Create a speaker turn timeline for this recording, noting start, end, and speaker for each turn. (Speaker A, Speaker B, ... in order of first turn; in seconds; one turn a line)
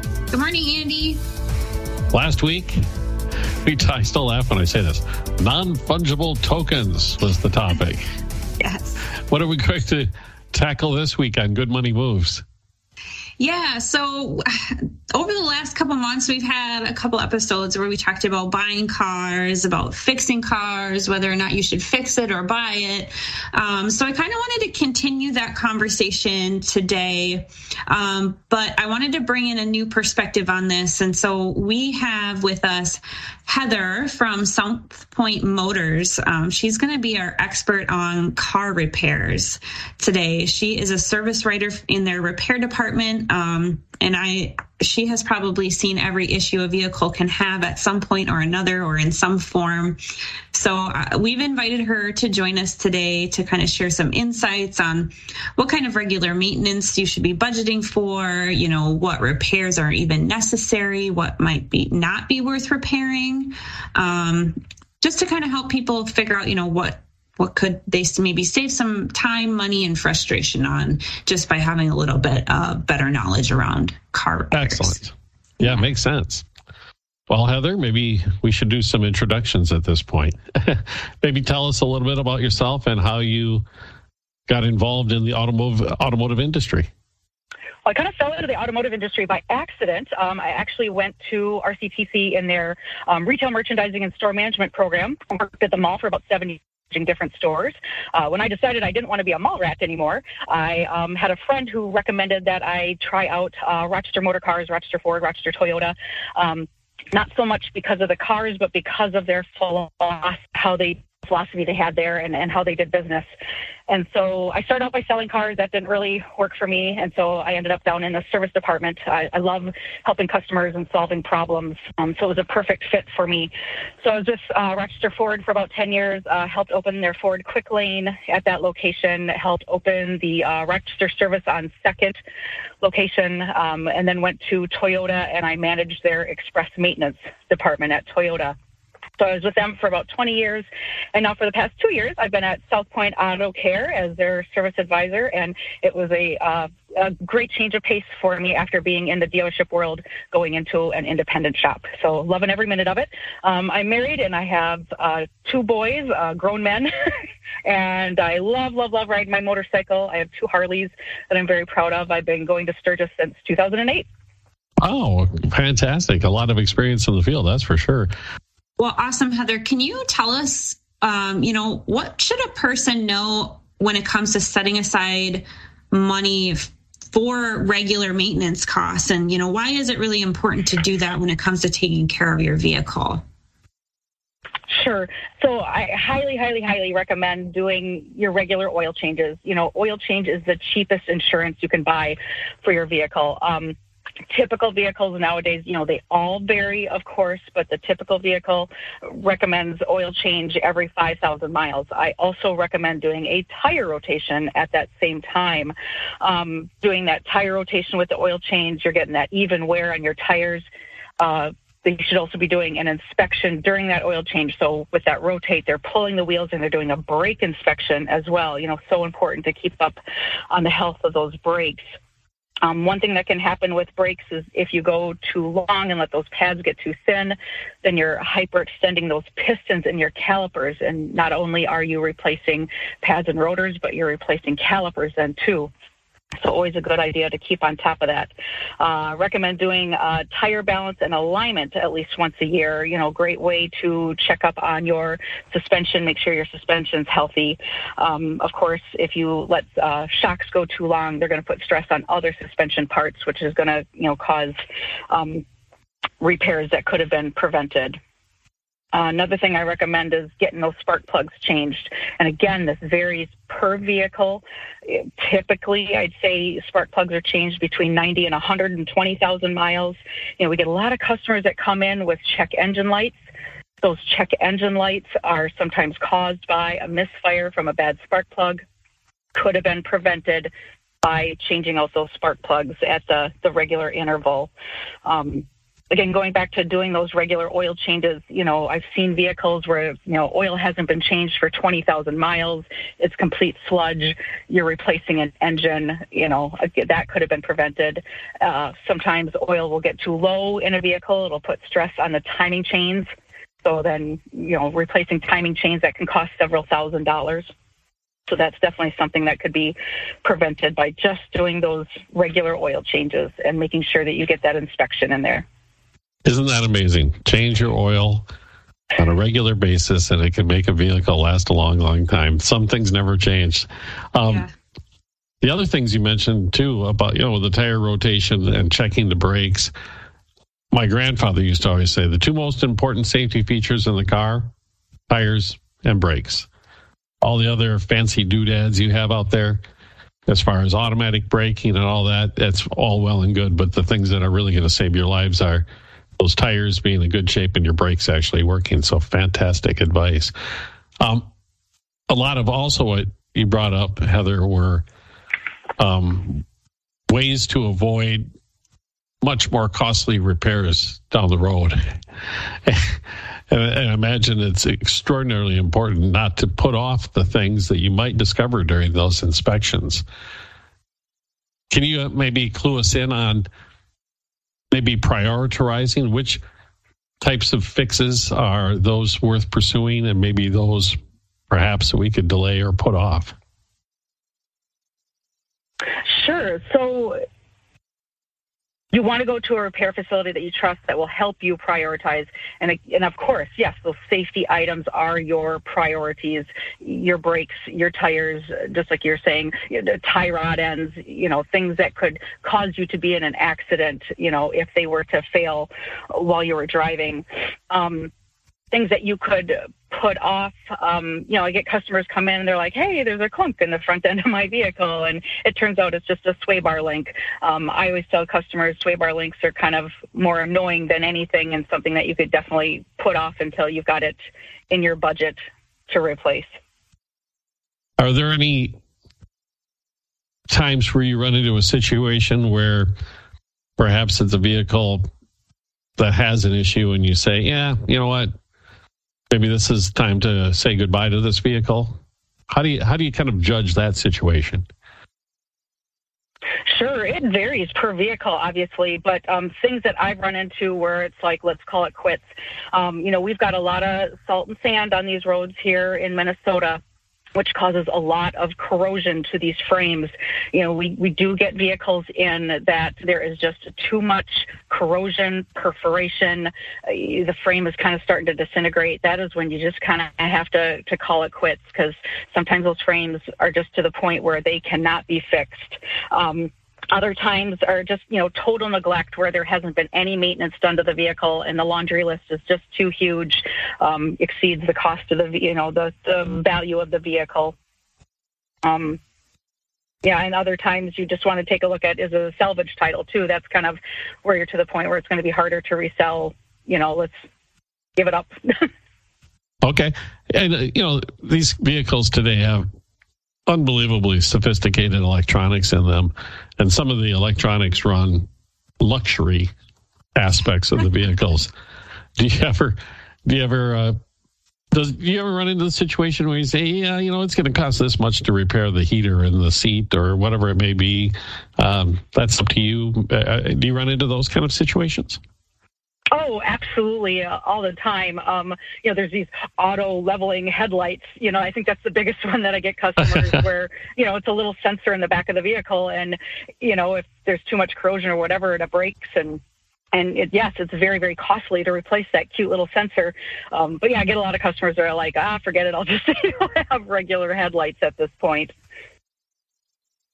Speaker A: 0.3-1.2
Speaker B: 2.1-2.8
Speaker B: 3.6-8.0
Speaker A: 8.6-9.1
Speaker B: 9.3-12.4
Speaker A: 13.4-50.0
Speaker A: 50.5-75.0
Speaker B: 74.5-76.5
Speaker A: 75.6-75.9
Speaker B: 77.3-83.7
Speaker B: 84.5-86.9
Speaker C: 87.9-113.3
Speaker C: 113.9-132.2
Speaker C: 132.8-138.6
Speaker C: 139.2-156.9
Speaker C: 157.7-164.1
Speaker B: 164.8-168.1
Speaker A: 168.8-183.2
Speaker C: 184.7-193.8
Speaker C: 194.3-210.7
Speaker C: 211.2-220.0
Speaker C: 220.5-221.9
Speaker C: 222.6-235.7
Speaker C: 236.4-254.6
Speaker C: 255.1-255.4
Speaker C: 256.2-258.0
Speaker C: 258.9-273.2
Speaker C: 273.8-278.6
Speaker C: 279.4-280.5
Speaker C: 281.0-284.5
Speaker C: 285.1-303.1
Speaker C: 303.6-307.5
Speaker C: 308.3-315.4
Speaker B: 316.2-318.3
Speaker B: 319.0-324.5
Speaker A: 324.3-324.5
Speaker B: 325.4-329.7
Speaker B: 330.7-334.5
Speaker B: 335.1-336.5
Speaker B: 337.2-339.6
Speaker B: 340.3-345.7
Speaker B: 346.2-350.3
Speaker B: 351.0-351.3
Speaker B: 352.1-354.9
Speaker B: 355.8-356.4
Speaker B: 357.1-358.3
Speaker B: 359.2-361.8
Speaker B: 362.6-370.1
Speaker B: 371.7-373.5
Speaker B: 374.7-376.4
Speaker B: 377.2-381.0
Speaker B: 381.5-383.3
Speaker C: 386.0-387.2
Speaker C: 388.9-408.1
Speaker C: 408.7-424.2
Speaker C: 424.7-426.5
Speaker B: 428.0-428.8
Speaker B: 430.5-432.9
Speaker B: 433.8-435.1
Speaker B: 436.0-438.3
Speaker B: 439.3-442.0
Speaker B: 442.5-444.7
Speaker C: 446.7-452.2
Speaker C: 452.7-456.8
Speaker C: 457.4-487.6
Speaker C: 488.6-489.0
Speaker C: 490.0-497.2
Speaker C: 498.0-498.7
Speaker B: 499.6-502.7
Speaker B: 503.5-508.3
Speaker B: 508.8-509.5
Speaker B: 510.1-511.5
Speaker B: 512.2-514.0
Speaker B: 514.7-525.2
Speaker C: 526.1-539.4
Speaker C: 539.9-548.5